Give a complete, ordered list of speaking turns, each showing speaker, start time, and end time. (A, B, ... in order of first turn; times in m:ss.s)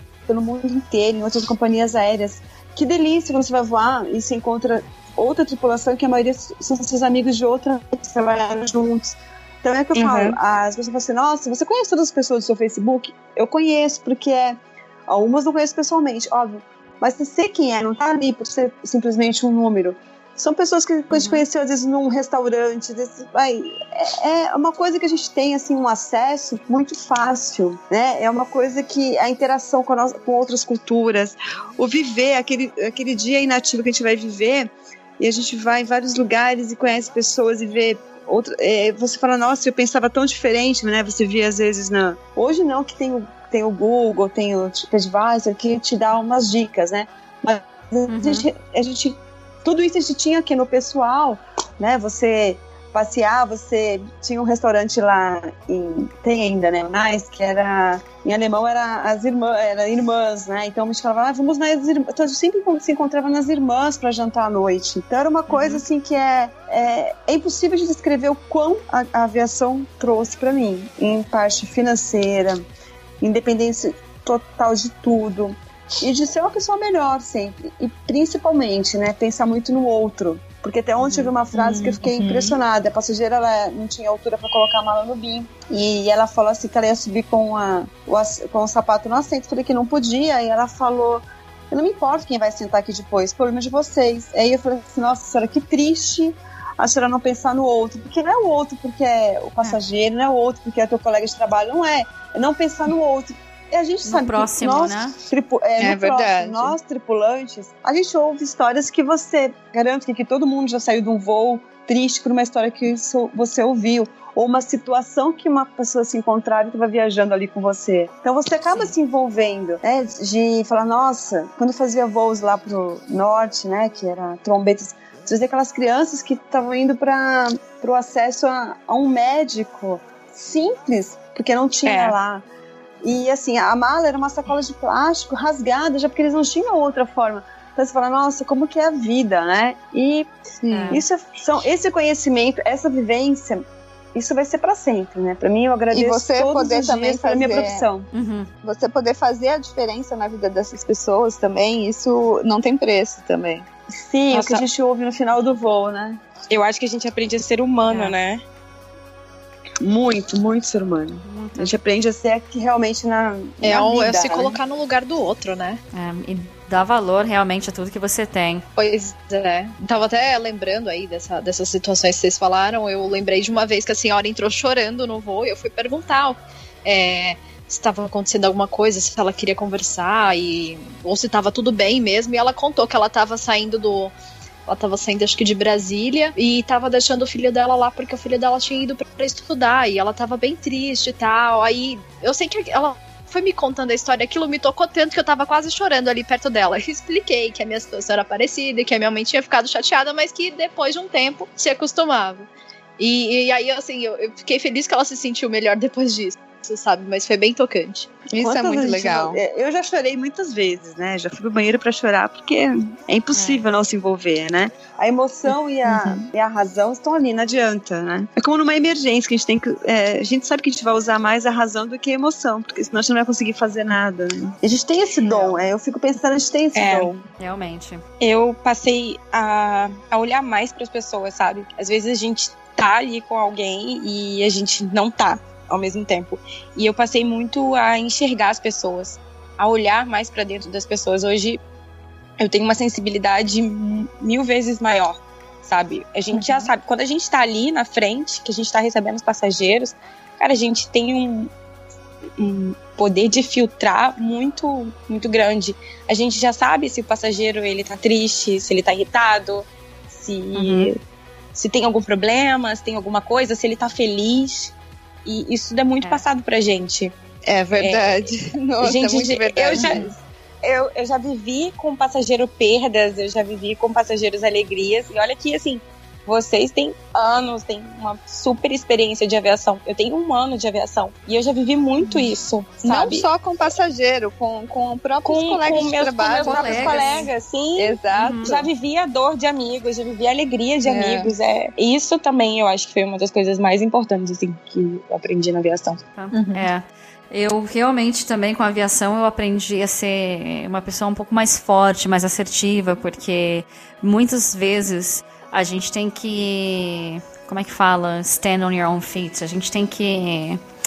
0:00.3-1:12.6 A
0:10.0-0:10.4 B
0:21.1-0:21.4 C
0:48.1-0:48.5 C
1:05.5-1:05.8 C
1:13.2-2:12.4 A
1:21.0-1:22.5 C
1:44.0-1:45.2 C
1:45.8-1:46.8 D
2:11.8-2:12.2 B
2:13.0-2:20.3 A
2:20.6-2:21.0 D
2:20.7-2:21.0 C
2:20.9-2:28.1 A
2:25.9-2:27.8 D
2:28.1-2:28.5 C
2:28.6-2:33.7 D
2:33.9-2:36.2 A
2:34.3-2:34.7 B
2:36.5-2:38.4 B
2:37.9-2:38.2 C
2:39.8-2:44.6 A
2:41.2-2:41.8 C
2:43.6-2:45.8 E
2:45.9-2:48.6 C
2:48.8-3:04.1 E
3:04.7-3:22.5 E
3:23.0-3:28.1 E
3:28.3-3:29.4 D
3:28.4-3:47.1 A
3:33.3-3:33.6 C
3:46.7-3:47.2 B
3:47.4-3:48.0 C
3:48.2-4:01.6 B
4:02.4-4:11.5 B
4:12.4-4:21.0 B
4:20.6-4:20.9 C
4:21.5-4:24.7 B
4:25.2-4:27.1 B
4:27.4-4:30.2 D
4:27.8-4:43.3 B
4:42.8-4:48.7 D
4:45.2-4:56.0 B
4:46.4-4:47.3 C
4:48.1-4:48.5 C
4:50.8-4:51.3 D
4:56.2-5:10.6 C
4:56.3-4:56.7 E